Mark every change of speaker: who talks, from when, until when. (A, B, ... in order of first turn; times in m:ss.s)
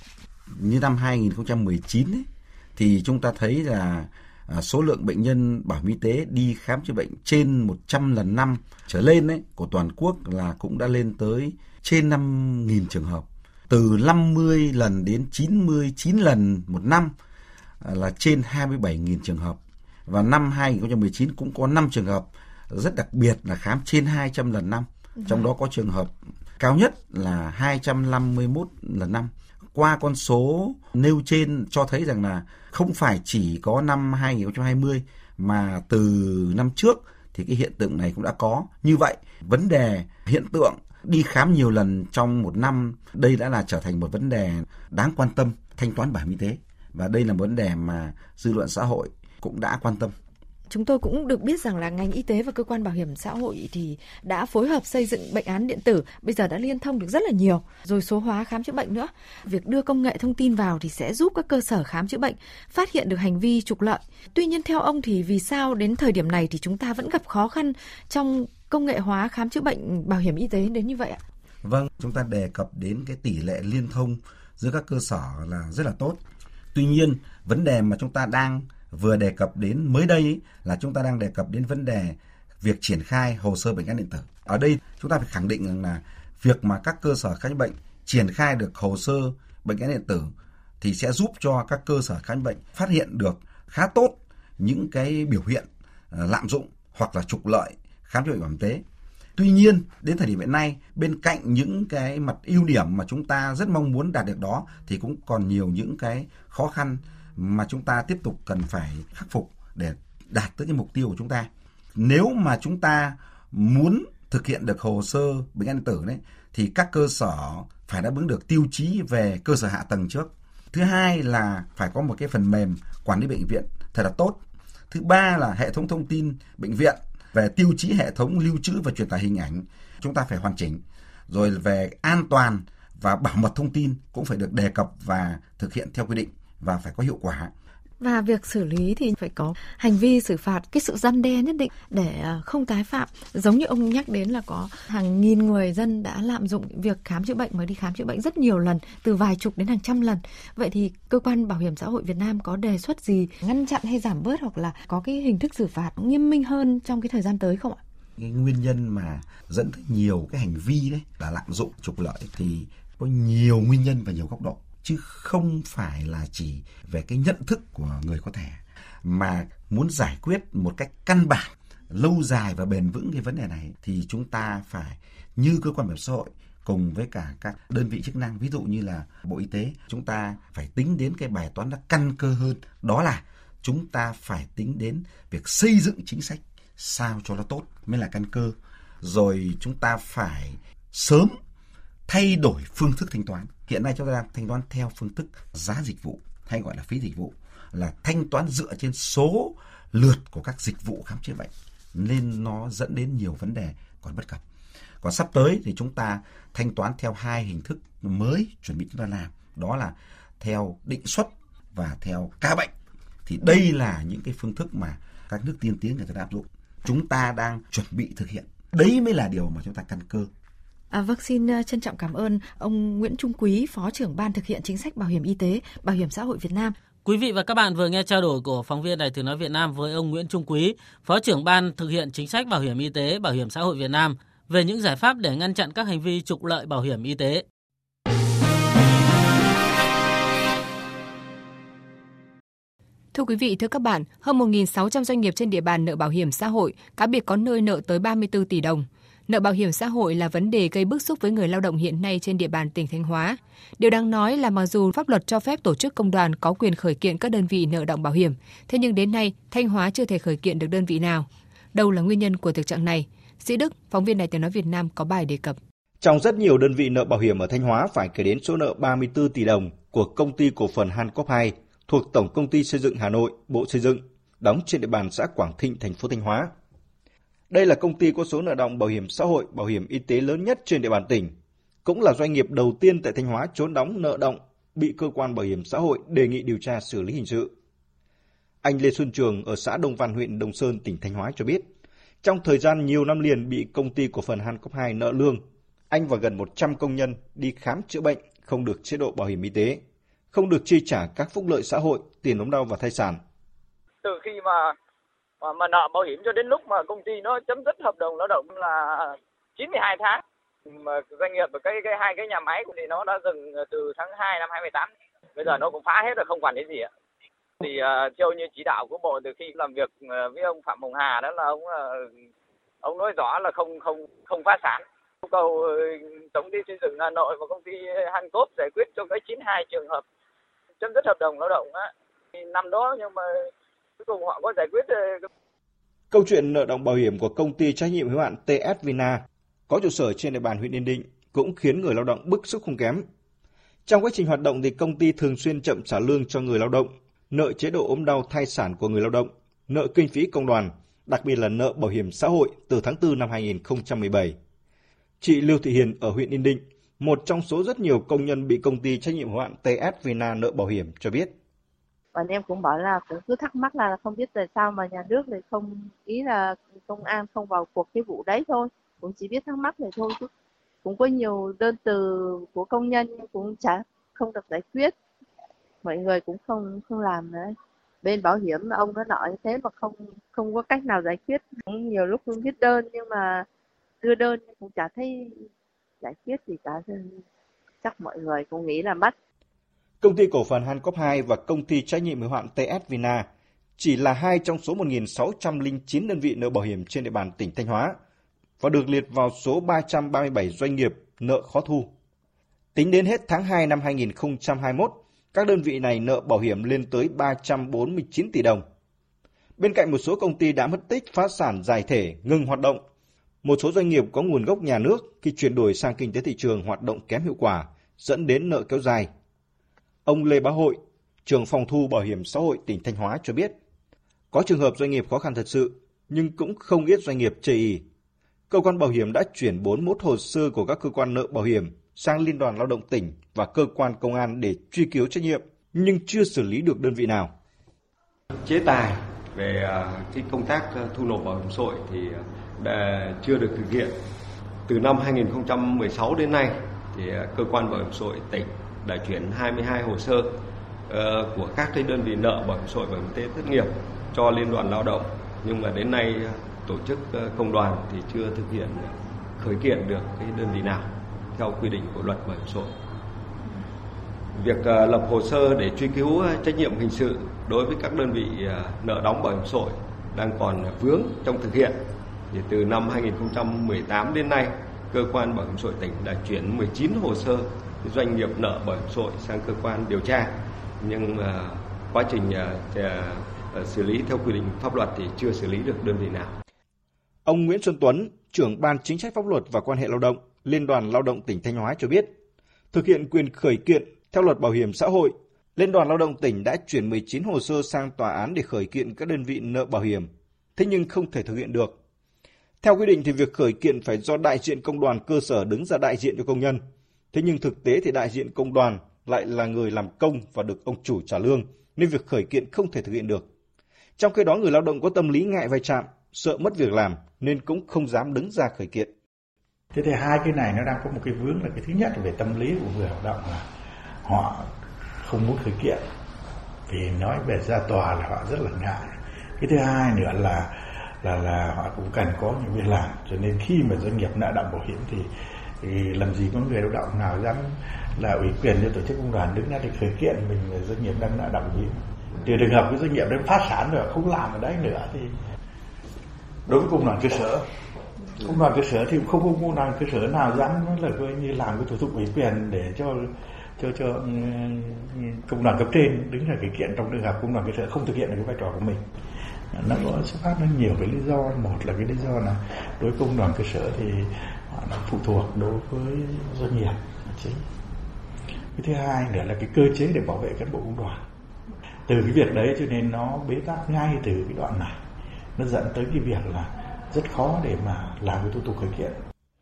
0:00.6-0:17.1 A
0:17.8-0:50.1 A
0:50.7-1:11.2 B
1:11.6-1:16.2 A
1:16.7-1:38.8 A
1:39.4-2:17.5 A
2:18.0-2:37.8 B
2:38.2-3:11.4 A
3:12.1-3:24.4 A
3:25.0-3:32.7 A
3:33.3-3:40.3 A
3:40.9-3:46.8 B
3:47.0-3:57.4 C
4:03.1-4:25.6 D
4:26.0-4:36.5 E
4:37.5-4:41.3 E
4:41.8-4:47.5 E
4:48.6-4:51.6 E
4:52.2-4:55.4 E
4:55.9-4:59.8 E
5:00.3-5:03.2 E
5:04.0-5:04.7 F
5:05.4-5:10.2 F
5:10.8-5:16.9 F
5:17.6-5:22.0 F
5:22.8-5:30.0 F
5:30.8-5:33.3 F
5:34.0-5:35.2 F
5:36.1-5:43.0 E
5:43.9-5:54.3 E
5:55.2-6:01.3 E
6:02.1-6:10.3 G
6:10.8-6:14.9 G
6:15.8-6:23.5 G
6:24.0-6:25.4 G
6:26.0-6:27.2 G
6:27.8-6:29.2 G
6:30.0-6:33.2 E
6:33.8-6:37.9 E
6:38.6-6:41.9 E
6:42.8-6:48.6 E
6:49.6-6:52.8 E
6:53.4-6:59.1 E
7:00.1-7:03.5 E
7:04.3-7:07.8 E
7:08.5-7:17.3 E
7:18.5-7:18.8 H
7:19.4-7:22.0 H
7:20.2-7:20.6 E
7:21.2-7:21.8 E
7:23.2-7:23.6 E
7:23.3-7:23.9 H
7:24.7-7:30.1 H
7:27.0-7:28.2 E
7:29.0-7:30.2 E
7:31.0-7:33.6 H
7:31.1-7:32.8 E
7:34.2-7:35.0 E
7:34.2-7:35.0 H
7:35.5-7:36.7 E
7:35.5-7:36.1 H
7:36.7-7:38.8 H
7:37.5-7:38.8 E
7:39.4-7:40.6 E
7:39.4-7:40.8 H
7:41.4-7:42.2 E
7:41.4-7:42.6 H
7:44.4-7:49.7 H
7:44.9-7:48.2 E
7:48.9-7:49.6 E
7:50.2-7:51.6 E
7:50.4-7:51.6 H
7:52.3-7:57.3 E
7:52.6-7:54.2 H
7:55.0-7:57.4 H
7:57.8-8:00.3 E
7:58.1-7:59.6 H
8:00.8-8:02.8 E
8:02.2-8:02.8 H
8:03.6-8:06.2 E
8:04.3-8:06.2 H
8:07.3-8:12.1 E
8:12.7-8:21.8 E
8:22.6-8:26.6 E
8:27.1-8:33.3 E
8:34.0-8:38.9 E
8:39.7-8:43.4 I
8:44.0-8:44.5 I
8:45.0-8:45.8 I
8:46.7-8:55.1 I
8:55.6-9:05.1 I
9:06.5-9:07.4 I
9:08.2-9:18.8 I
9:19.5-9:27.4 I
9:28.6-9:31.0 I
9:31.9-9:34.8 I
9:35.4-9:39.0 I